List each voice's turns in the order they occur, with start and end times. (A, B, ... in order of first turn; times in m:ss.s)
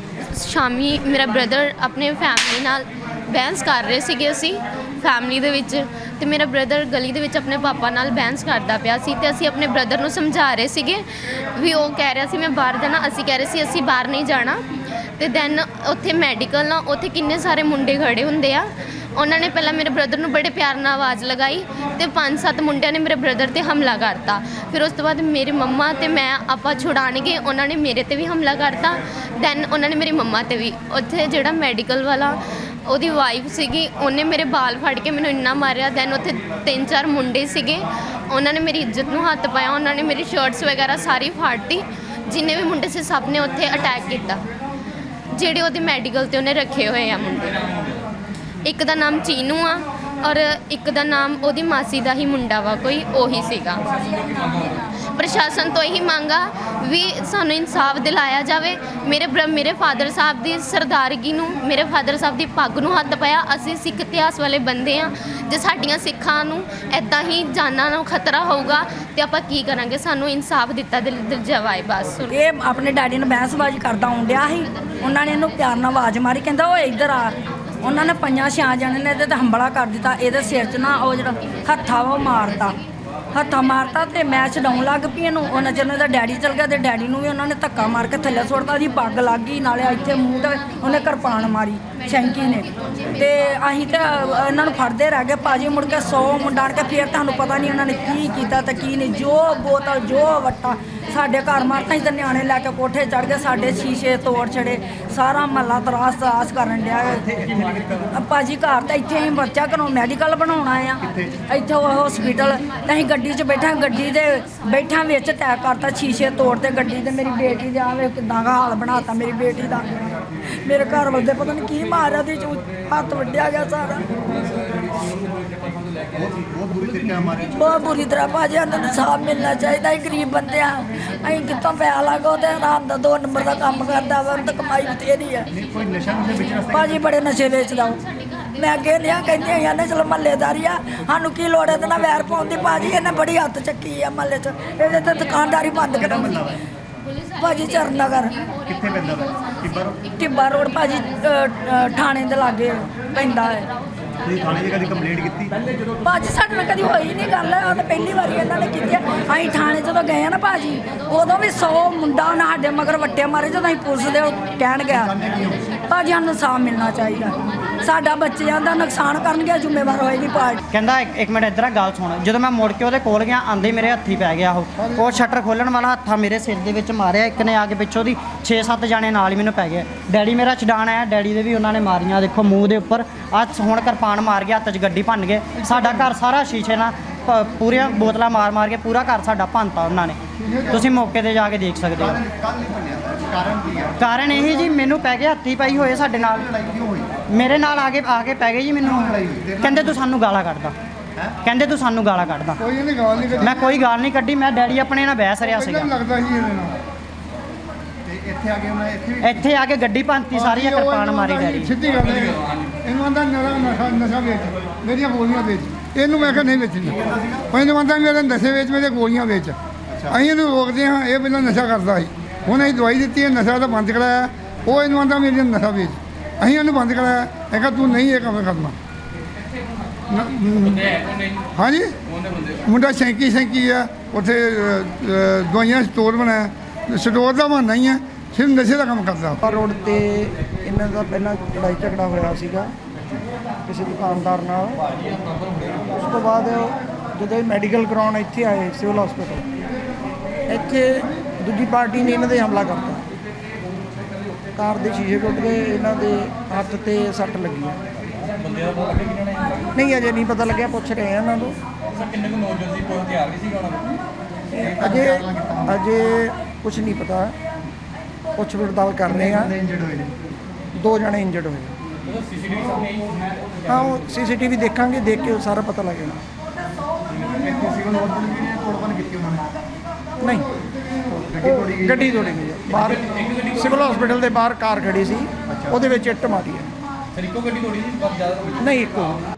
0:00.4-0:11.0 A
0:11.6-0:14.6 A
0:15.2-0:44.4 A
0:45.3-0:47.6 A
0:48.6-1:12.4 A
1:12.4-1:22.8 B
1:23.3-1:47.2 B
1:47.4-1:48.0 C
1:48.1-1:59.9 B
2:00.6-2:04.1 B
2:06.1-2:07.5 C
2:07.5-2:15.5 B
2:15.6-2:16.8 C
2:16.7-2:18.0 B
2:18.6-2:26.3 B
2:26.2-2:26.6 C
2:27.4-2:28.3 B
2:28.7-2:29.9 C
2:30.2-2:33.6 B
2:34.3-2:35.5 C
2:36.0-2:45.2 B
2:45.0-2:45.7 C
2:45.9-2:50.6 B
2:50.7-3:12.2 D
3:12.1-3:14.0 C
3:14.0-3:16.5 D
3:16.4-3:17.2 C
3:17.3-3:20.7 D
3:19.1-3:19.8 C
3:21.4-3:22.6 D
3:22.6-3:23.8 E
3:23.4-3:25.9 D
3:25.5-3:26.8 E
3:28.1-3:29.3 C
3:29.2-3:31.7 D
3:30.3-3:39.6 E
3:37.1-3:37.4 C
3:40.1-3:48.8 E
3:50.1-3:50.9 E
3:51.5-3:51.9 E
3:52.6-3:59.4 E
3:59.4-4:02.7 F
4:03.7-4:04.8 F
4:05.9-4:09.4 F
4:10.5-4:13.0 F
4:14.6-4:18.0 F
4:19.6-4:21.6 F
4:24.5-4:27.3 F
4:28.4-4:29.6 F
4:29.3-4:30.1 C
4:30.8-4:31.8 F
4:33.7-4:36.2 F
4:37.2-4:39.5 C
4:40.2-4:40.5 F
4:41.1-4:46.7 F
4:48.4-4:49.2 F